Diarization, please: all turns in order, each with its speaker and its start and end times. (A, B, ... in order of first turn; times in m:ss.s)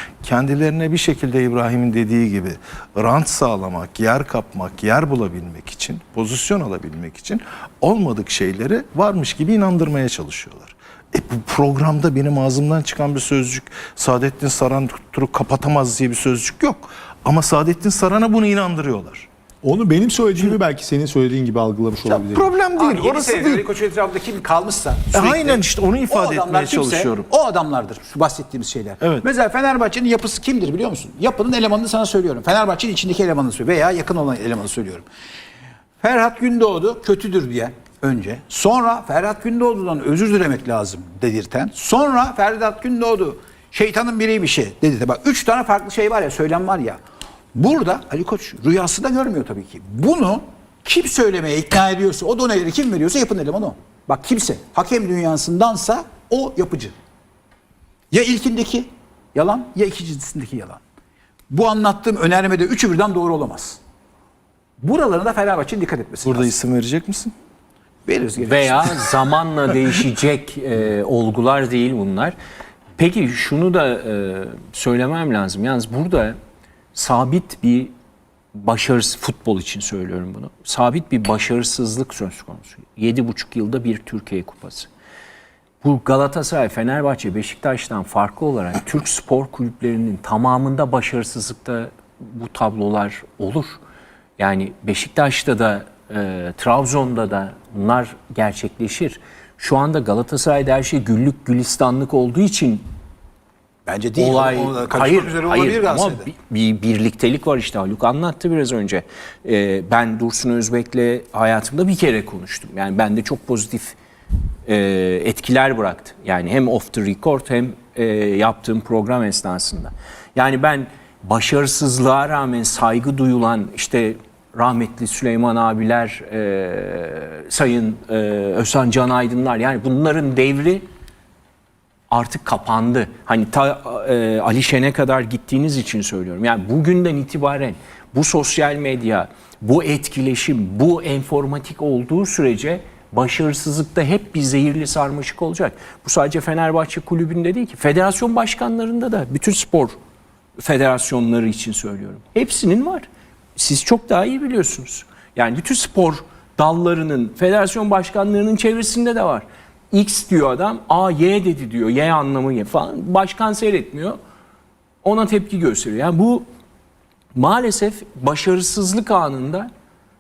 0:00.2-0:19.3 A
0:19.6-0:22.5 B
0:22.2-0:23.6 A
0:22.7-0:35.1 C
0:25.1-0:27.3 A
0:29.0-0:29.3 A
0:36.0-0:47.0 C
0:47.5-0:57.0 C
0:58.1-1:00.8 C
1:01.5-1:03.8 C
1:04.8-1:06.5 C
1:06.2-1:07.3 A
1:08.1-1:09.1 C
1:08.4-1:12.4 D
1:13.0-1:16.4 D
1:17.0-1:17.9 D
1:18.6-1:24.9 D
1:25.8-1:33.8 D
1:34.4-1:42.8 D
1:43.9-1:46.3 C
1:44.2-1:54.0 D
1:54.7-2:10.8 D
2:12.1-2:30.0 D
2:30.6-2:44.2 D
2:45.0-2:46.4 D
2:47.4-2:49.7 D